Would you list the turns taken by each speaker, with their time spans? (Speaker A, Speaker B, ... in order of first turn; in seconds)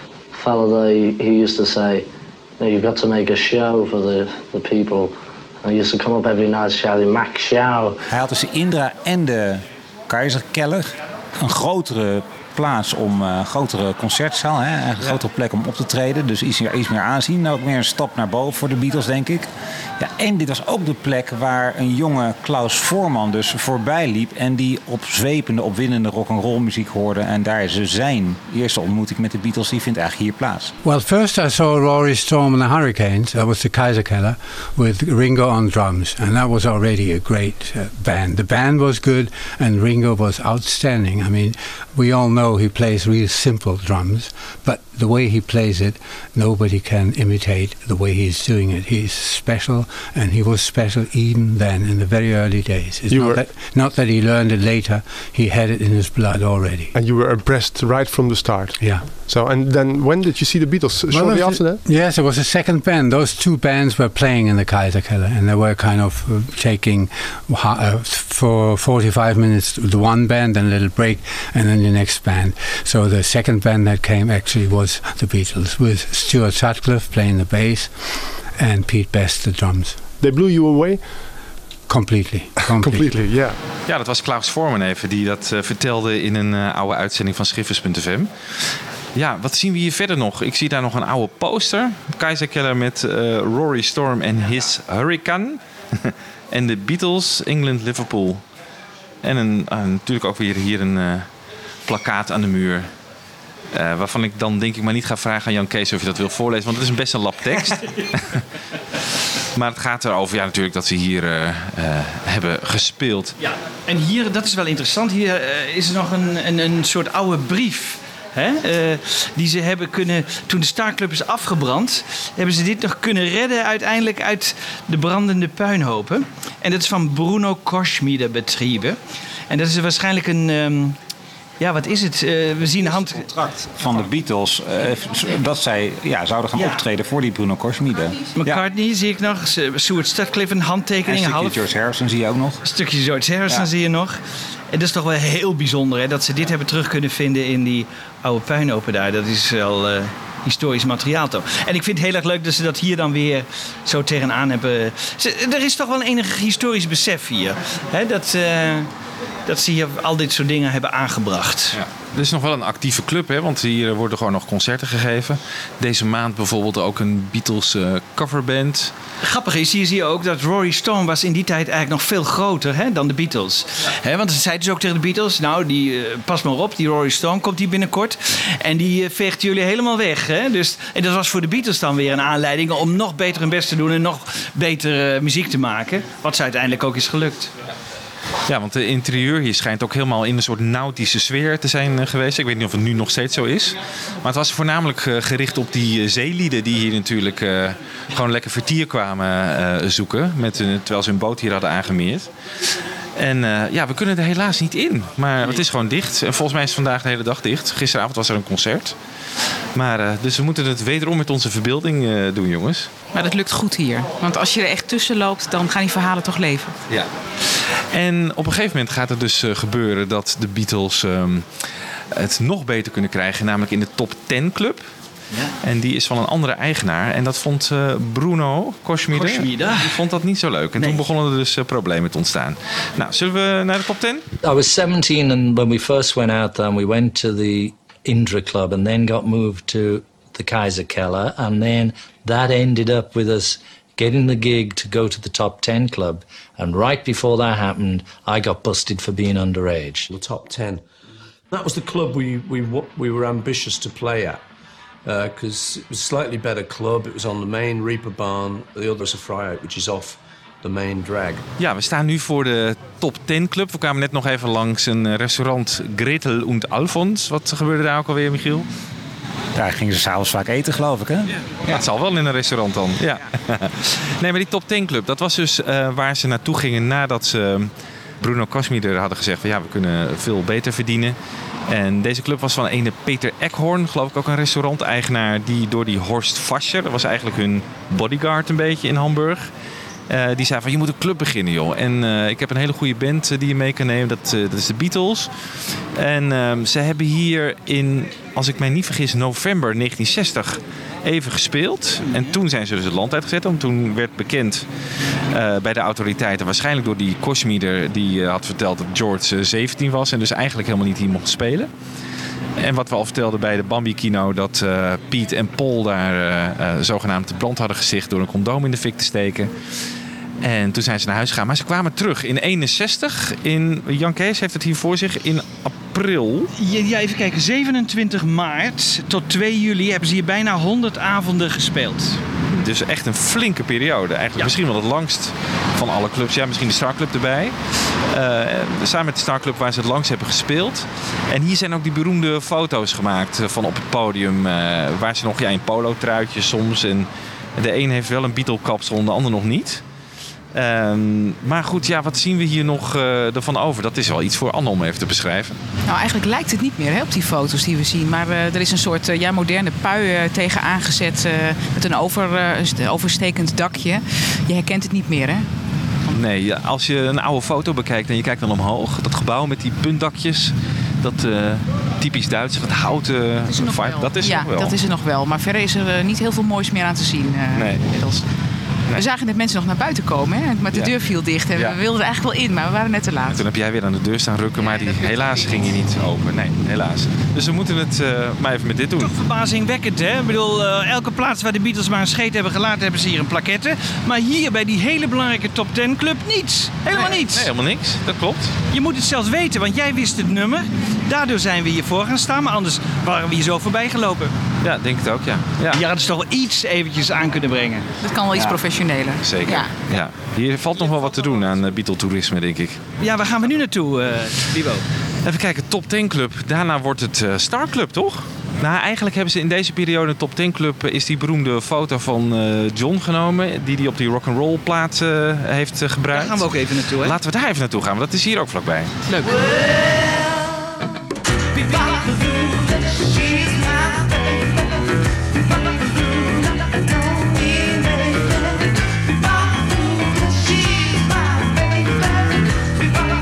Speaker A: 0.3-2.0, 2.6-8.0
Speaker B: 8.1-19.5, 20.0-30.7, 133.0-138.6, 141.1-142.6, 269.5-271.3
Speaker C: 30.8-57.0, 58.8-59.2, 61.1-80.1, 81.9-83.2
Speaker D: 53.1-53.5, 56.9-61.8, 80.2-81.1, 82.6-83.6
Speaker E: 83.9-98.4, 99.2-101.3, 101.8-102.9, 103.7-108.4, 109.5-113.3, 161.7-168.9, 188.5-208.9, 209.7-212.9, 216.9-224.9, 225.6-234.2, 261.6-268.7, 271.6-281.1, 281.7-289.5, 290.1-304.6, 305.3-311.7, 312.6-319.5, 320.4-326.5, 332.6-337.6, 338.1-349.8, 350.5-355.6, 366.1-374.8, 377.5-377.9, 383.3-389.1, 396.9-398.6, 404.6-405.8, 409.2-412.9, 415.2-428.9
Speaker F: 113.4-129.0, 129.5-131.0, 131.6-133.2, 136.6-136.8, 138.4-141.6, 142.7-144.2, 144.7-158.9, 159.4-161.8, 169.2-187.5, 229.1-230.0, 326.6-332.2, 389.0-397.5, 398.7-404.3, 405.7-407.9, 413.0-414.9, 426.1-427.2, 429.1-430.1, 431.5-434.2
Speaker G: 213.1-216.7, 355.8-365.5, 373.4-378.2, 378.9-383.4, 384.6-385.7, 408.0-409.7
Speaker H: 234.4-250.1
Speaker I: 250.1-250.8, 251.5-254.4, 255.0-261.4